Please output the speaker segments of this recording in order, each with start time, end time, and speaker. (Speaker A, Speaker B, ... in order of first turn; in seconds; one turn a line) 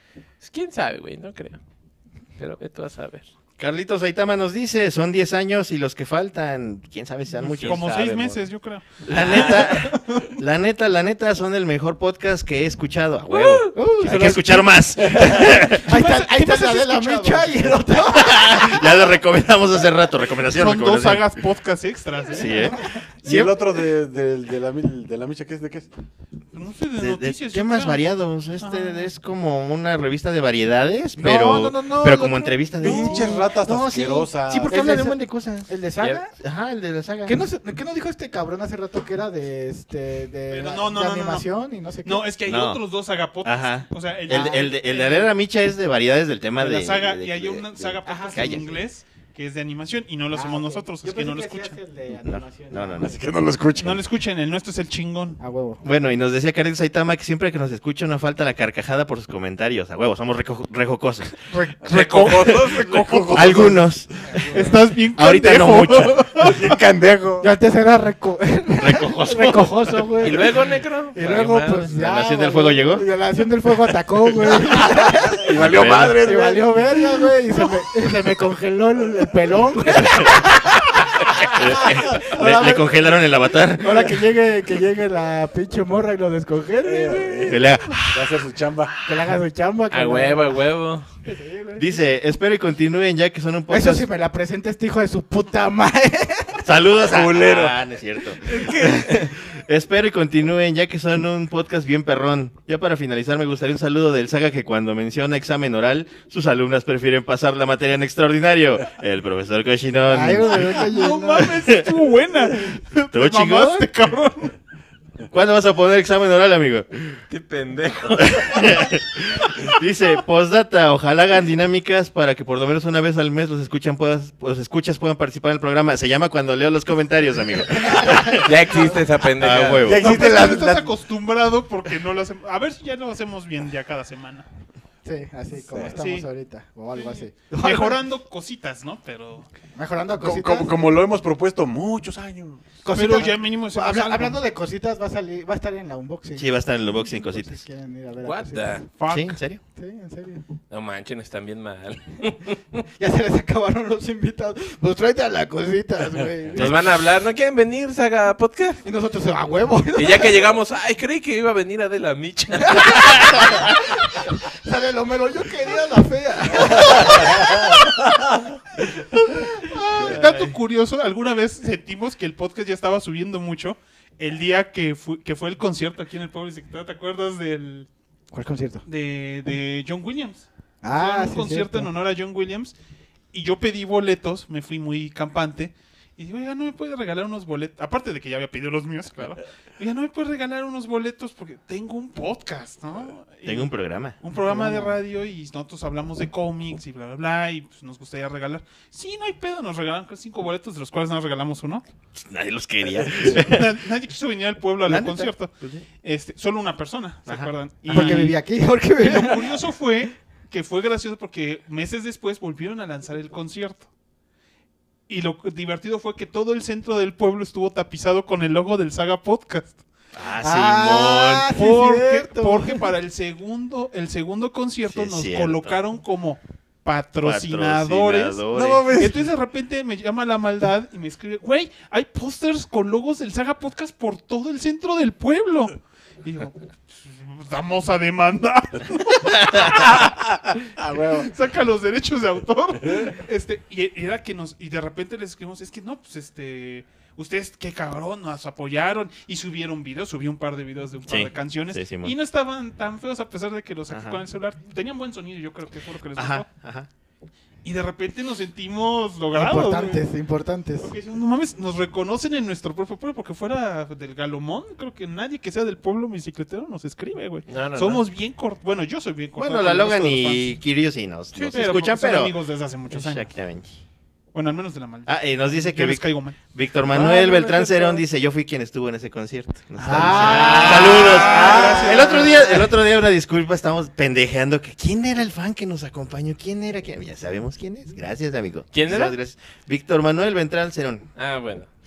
Speaker A: 0.4-1.6
Speaker A: 2.4-3.3
Speaker B: 3.6-7.8
Speaker A: 7.4-8.5
Speaker C: 7.5-10.3
Speaker B: 9.1-15.9
Speaker A: 9.1-9.6
Speaker A: 13.3-13.7
Speaker D: 13.7-18.9
Speaker C: 15.7-17.8
Speaker B: 18.1-21.3
Speaker C: 20.5-22.8
Speaker B: 22.3-23.5
Speaker D: 22.4-23.0
Speaker E: 23.2-25.9
Speaker C: 26.5-29.1
Speaker B: 27.0-35.7
Speaker D: 31.2-33.5
Speaker E: 32.8-34.8
Speaker D: 34.6-36.3
Speaker B: 36.4-37.4
Speaker D: 37.2-42.3
Speaker C: 40.5-41.5
Speaker C: 42.0-45.2
Speaker B: 42.5-42.8
Speaker B: 43.4-48.7
Speaker D: 44.3-45.2
Speaker C: 46.6-51.8
Speaker D: 48.0-48.7
Speaker D: 50.3-53.3
Speaker B: 52.2-53.2
Speaker E: 53.0-54.0
Speaker C: 53.8-55.4
Speaker D: 55.4-55.8
Speaker B: 55.8-61.4
Speaker C: 61.5-63.8
Speaker A: 61.9-63.7
Speaker E: 62.8-63.7
Speaker B: 63.3-66.3
Speaker C: 64.4-66.8
Speaker E: 66.3-67.5
Speaker D: 67.4-70.6
Speaker B: 68.8-70.1
Speaker A: 70.2-71.9
Speaker D: 71.1-81.0
Speaker B: 71.8-73.0
Speaker E: 75.4-76.8
Speaker B: 75.6-76.2
Speaker A: 75.6-76.1
Speaker B: 81.5-84.1
Speaker D: 82.1-83.1
Speaker D: 83.8-87.7
Speaker E: 86.8-89.0
Speaker B: 87.5-88.2
Speaker D: 89.0-90.6
Speaker A: 89.9-91.1
Speaker D: 91.2-92.0
Speaker B: 91.8-94.0
Speaker D: 93.7-96.8
Speaker B: 96.6-110.9
Speaker E: 97.0-97.8
Speaker D: 110.0-111.7
Speaker C: 110.6-114.6
Speaker B: 113.1-113.9
Speaker B: 115.3-117.2
Speaker A: 117.3-119.0
Speaker B: 118.3-128.5
Speaker D: 127.7-129.1
Speaker A: 128.4-129.9
Speaker B: 129.4-130.2
Speaker E: 129.8-130.9
Speaker C: 129.9-134.4
Speaker D: 135.0-138.0
Speaker E: 135.7-135.9
Speaker C: 135.9-136.2
Speaker C: 136.9-139.5
Speaker D: 139.7-140.7
Speaker E: 140.2-142.8
Speaker D: 142.8-148.8
Speaker C: 142.9-144.4
Speaker B: 146.4-147.6
Speaker A: 148.2-148.8
Speaker C: 149.0-149.4
Speaker B: 149.1-149.6
Speaker D: 149.7-150.4
Speaker A: 150.7-152.8
Speaker D: 153.0-156.8
Speaker A: 156.5-158.8
Speaker D: 158.8-160.5
Speaker A: 159.9-163.7
Speaker D: 162.7-167.8
Speaker D: 169.3-169.8
Speaker C: 169.7-177.9
Speaker B: 170.0-170.5
Speaker D: 178.3-178.8
Speaker C: 178.8-182.7
Speaker D: 180.8-181.9
Speaker C: 183.3-201.8
Speaker B: 193.4-194.2
Speaker D: 194.3-195.0
Speaker B: 202.1-203.7
Speaker C: 203.2-208.4
Speaker B: 204.8-205.8
Speaker B: 207.3-208.2
Speaker D: 207.9-209.6
Speaker C: 209.0-213.9
Speaker C: 215.1-219.8
Speaker B: 220.1-221.5
Speaker D: 220.4-222.9
Speaker C: 221.5-240.6
Speaker B: 224.9-225.8
Speaker B: 227.2-229.1
Speaker E: 228.5-229.1
Speaker E: 240.8-241.3
Speaker C: 241.1-256.5
Speaker B: 251.1-252.1
Speaker B: 253.9-254.2
Speaker B: 256.1-256.9
Speaker C: 257.6-260.0
Speaker D: 259.3-260.9
Speaker C: 260.8-270.6
Speaker A: 267.5-268.0
Speaker B: 269.4-272.4
Speaker C: 271.3-273.3
Speaker B: 272.9-273.8
Speaker C: 274.3-276.4
Speaker B: 275.1-291.1
Speaker C: 276.9-278.0
Speaker D: 279.8-282.7
Speaker E: 279.9-280.2
Speaker A: 280.2-281.1
Speaker C: 280.2-282.6
Speaker E: 281.4-282.0
Speaker A: 288.7-289.1
Speaker A: 291.1-291.7